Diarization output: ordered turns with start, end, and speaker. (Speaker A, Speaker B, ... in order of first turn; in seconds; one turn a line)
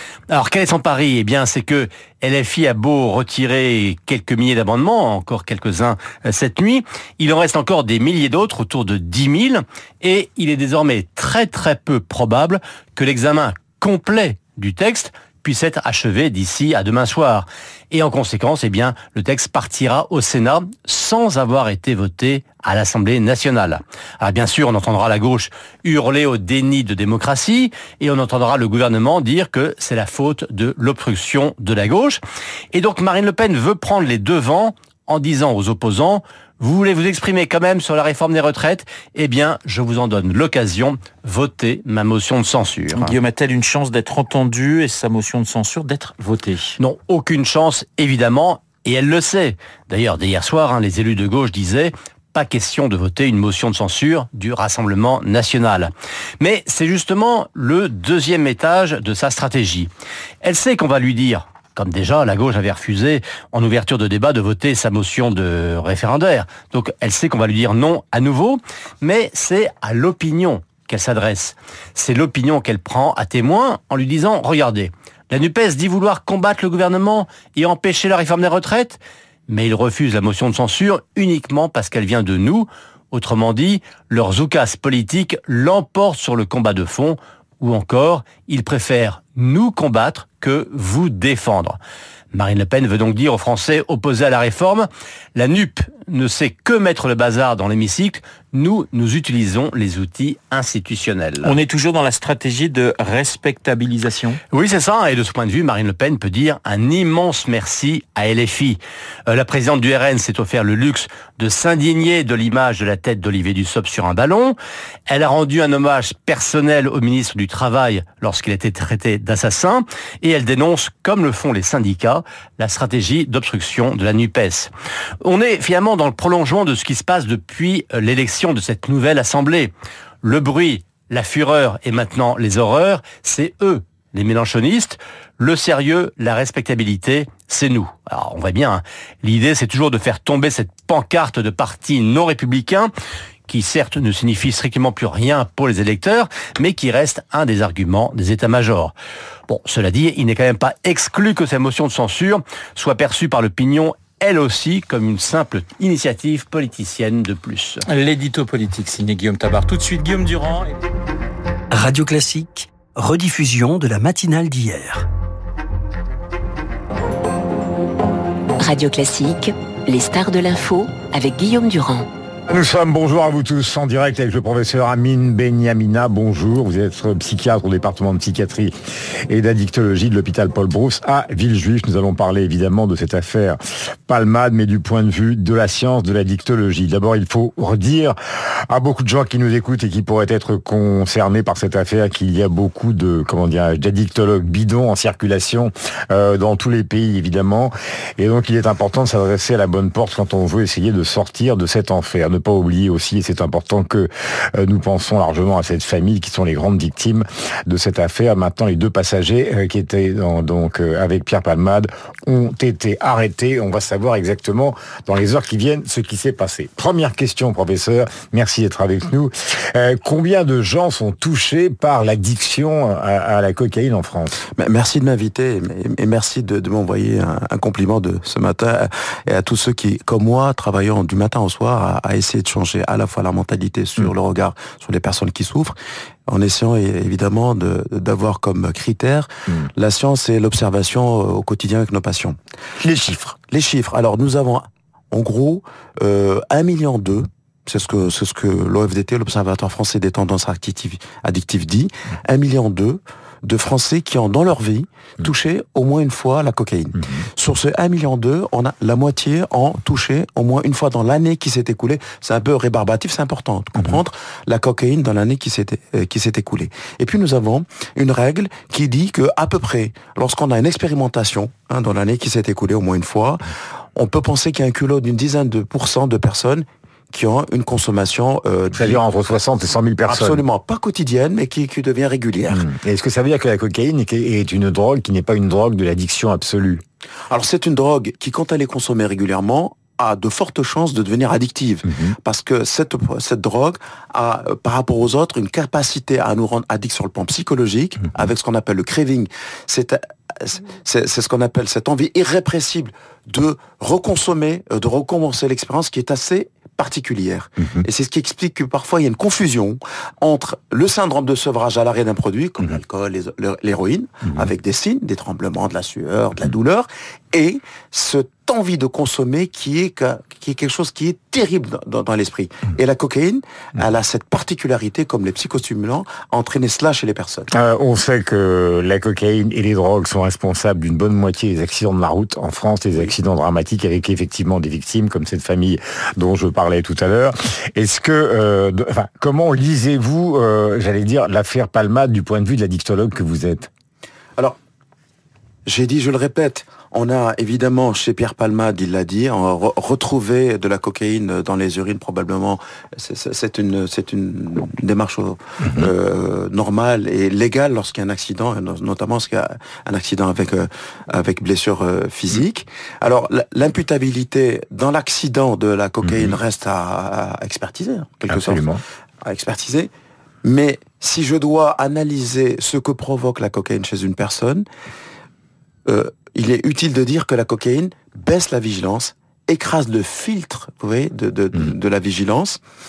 Speaker A: 0.3-32.2
Speaker A: 32.7-43.2
Speaker B: 42.9-46.8
Speaker A: 46.8-59.9
Speaker A: 60.4-91.8
Speaker A: 92.3-101.5
Speaker B: 101.4-104.4
Speaker A: 104.5-114.6
Speaker A: 115.1-124.7
Speaker A: 125.2-142.9
Speaker A: 143.5-148.9
Speaker A: 149.5-157.8
Speaker B: 157.8-160.8
Speaker C: 161.7-165.1
Speaker D: 168.6-172.1
Speaker E: 172.5-178.8
Speaker E: 179.3-188.2
Speaker E: 188.7-224.4
Speaker F: 224.6-235.8
Speaker F: 236.3-242.4
Speaker E: 242.8-243.4
Speaker F: 243.5-273.4
Speaker F: 274.0-279.0
Speaker E: 278.7-280.4
Speaker F: 280.1-282.7
Speaker E: 282.5-286.8
Speaker F: 287.3-327.5
Speaker E: 291.9-292.2
Speaker E: 327.5-343.7
Speaker F: 345.7-368.6
Speaker E: 366.0-366.4
Speaker E: 368.3-368.8
Speaker F: 369.2-369.9
Speaker F: 370.4-374.7
Speaker F: 375.9-382.6